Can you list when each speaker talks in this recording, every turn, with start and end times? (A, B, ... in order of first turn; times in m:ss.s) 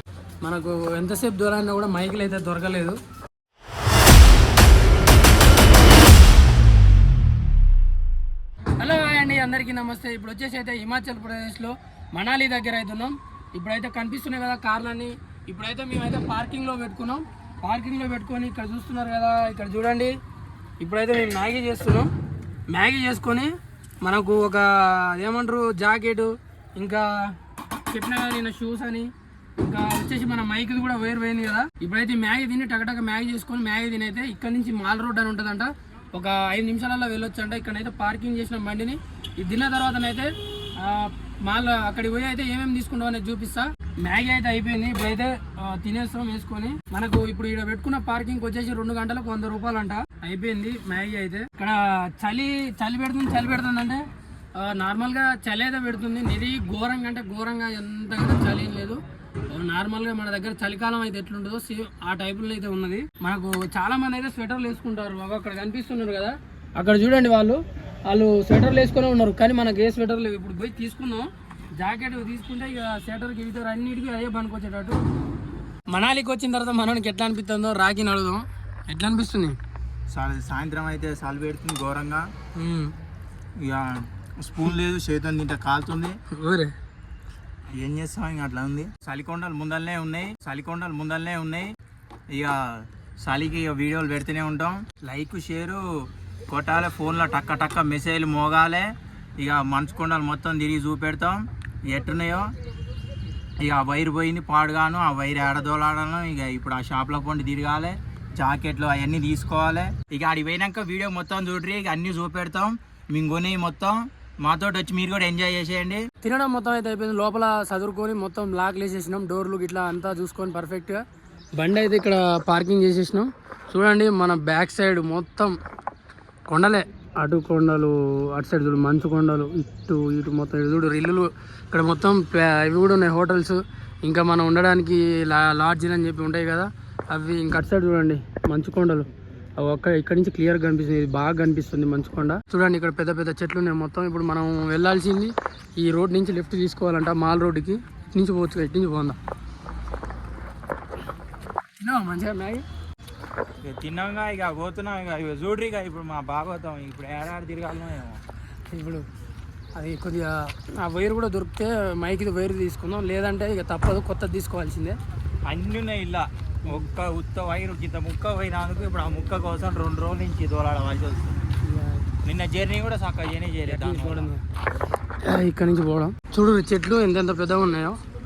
0:00.4-0:03.0 A
0:08.8-0:20.1 A
0:20.8-0:22.1 A
0:22.7-1:15.0 A
1:15.9-1:19.6 A
1:20.1-1:22.2 B
1:22.6-1:22.9 A
1:23.6-1:26.2 B
1:26.3-1:26.7 A
1:27.7-1:31.7 B
1:32.3-1:35.8 B
1:36.5-1:42.5 B
1:43.6-1:56.0 B
1:56.2-2:01.0 A
2:01.6-2:05.6 A
2:06.5-2:29.2 A
2:31.8-2:32.6 A
2:33.6-2:38.2 B
2:38.7-2:39.0 A
2:39.7-2:45.0 A
2:45.5-2:51.4 B
2:51.6-2:52.1 A
2:52.2-2:54.3 B
2:53.6-2:54.4 A
2:55.2-2:58.0 A